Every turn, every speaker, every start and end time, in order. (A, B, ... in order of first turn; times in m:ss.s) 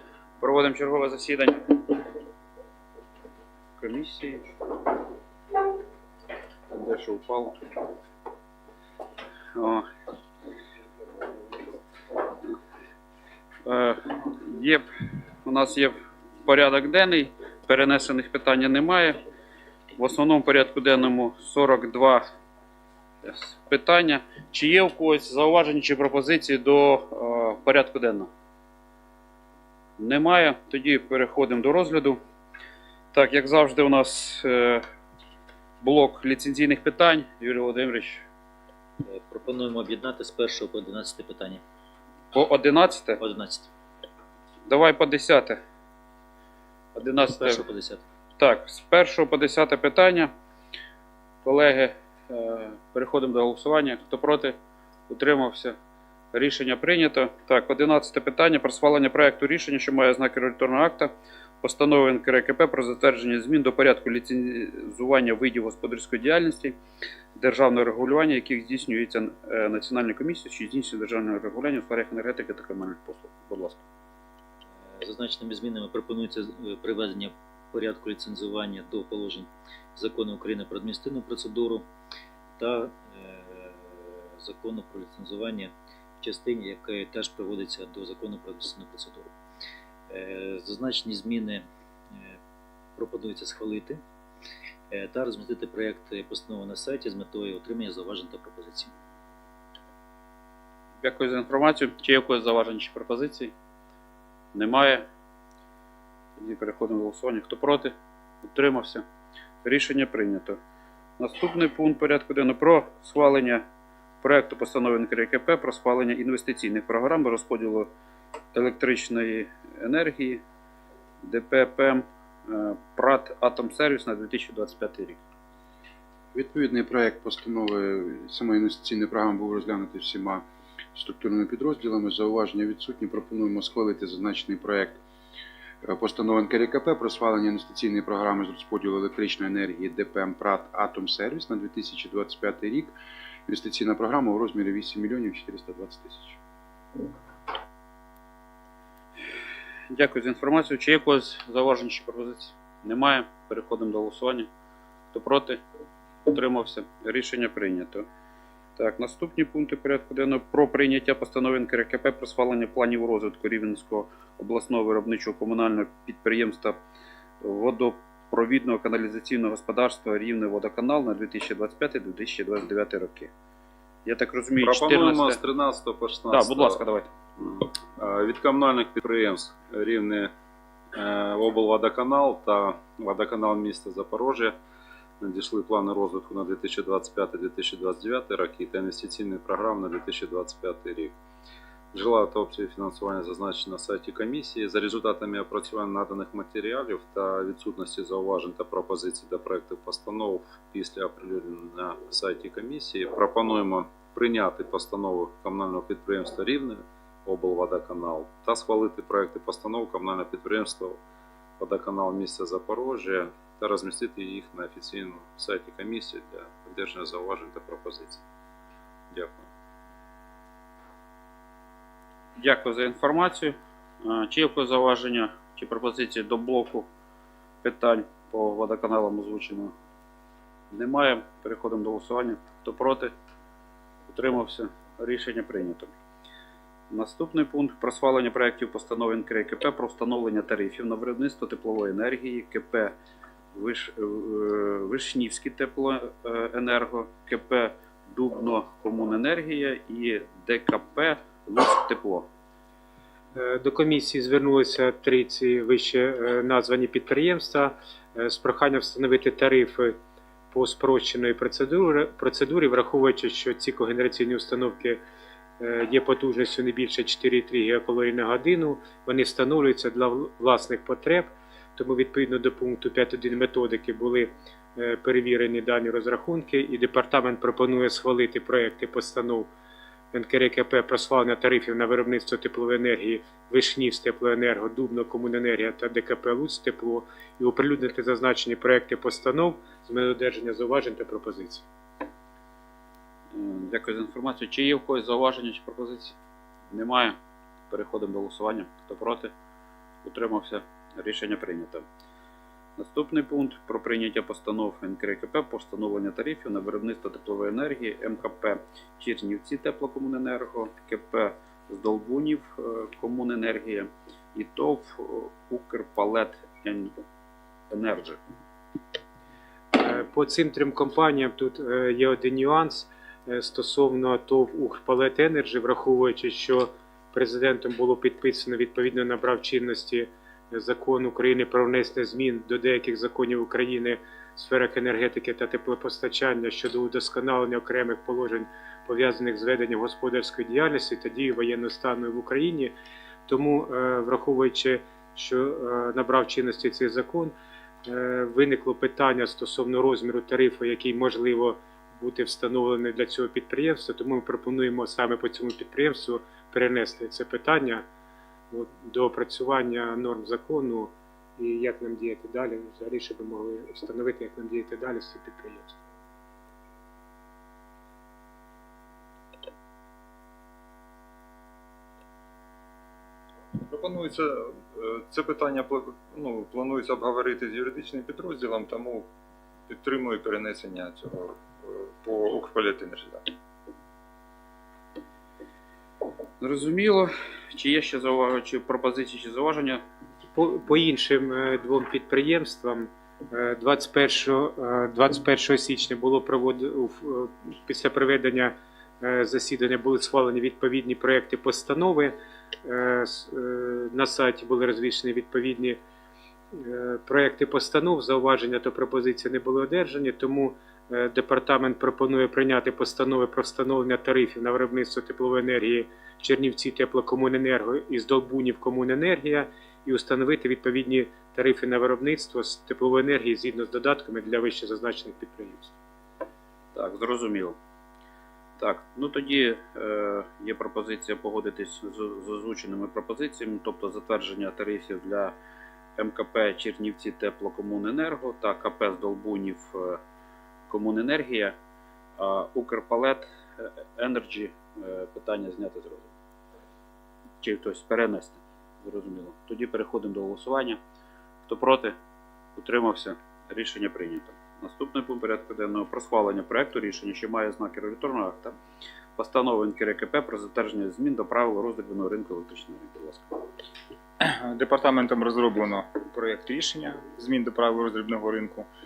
0:00.4-0:02.0 A
0:03.8-0:04.5 A
0:06.7-0:07.6 A
0:09.6-0:09.8 A
0:13.6-0:14.8 A
0:15.4-0:15.9 A
0:16.4-0:19.2 A
0:20.0-0:22.2 A
0:23.2-0:28.3 A
0:30.0-0:32.2 A
0:33.1-0:34.8 A
0:35.8-0:38.2 A
0:39.0-0:41.6 B
0:42.3-0:43.2 A
0:43.2-0:43.7 B
0:44.7-0:45.6 A
0:46.9-0:47.6 A
0:47.4-0:48.0 B
0:48.4-0:50.3 A
0:51.4-0:54.6 A
0:55.1-0:55.8 A
0:56.3-1:06.8 A
1:07.4-1:13.8 A
1:15.0-1:21.9 B
1:22.6-1:29.3 B
1:30.1-1:31.6 B
1:33.0-1:34.0 B
1:34.9-1:38.9 B
1:41.0-1:43.5 A
1:44.5-1:45.0 A
1:46.4-1:49.0 A
1:49.6-1:50.6 A
1:51.2-1:53.6 A
1:54.2-1:57.9 A
1:58.5-2:00.4 A
2:01.2-2:05.2 A
2:06.3-2:15.0 C
2:15.8-2:22.9 C
2:23.5-2:26.4 C
2:29.9-2:34.5 A
2:35.1-2:35.6 A
2:36.2-2:38.0 A
2:38.8-2:46.8 A
2:47.4-2:53.3 A
2:54.0-2:55.4 A
2:54.6-2:56.8 D
2:56.3-2:57.1 A
2:57.4-3:00.3 D
3:00.9-3:04.6 D
3:05.2-3:11.1 D
3:11.9-3:31.0 D
3:31.6-3:38.2 D
3:39.1-3:39.5 D
3:42.4-3:46.9 A
3:47.6-3:49.7 A
3:50.7-3:53.1 A
3:54.1-3:55.9 A
3:56.9-4:03.0 A
4:03.5-4:12.3 A
4:13.3-4:20.0 E
4:20.5-4:25.0 E
4:25.6-4:39.5 E
4:40.1-4:51.6 E
4:53.3-4:56.2 A
4:56.7-4:57.2 A
4:57.7-4:59.3 A
5:00.0-5:01.8 A
5:02.8-5:16.9 A
5:17.7-5:18.2 A
5:19.7-5:42.7 E
5:43.3-5:47.3 E
5:47.8-5:57.8 E
5:58.5-6:05.8 E
6:13.5-6:19.1 F
6:19.7-6:23.3 F
6:26.4-6:29.8 A
6:30.3-6:45.8 E
6:46.5-7:05.7 E
7:06.7-7:07.6 A
7:08.6-7:15.3 A
7:16.0-7:20.0 A
7:20.7-7:21.6 A
7:22.2-7:26.1 A
7:27.4-7:30.8 A
7:31.4-7:32.0 A
7:32.6-7:38.5 A
7:39.2-7:43.5 A
7:44.2-7:48.7 G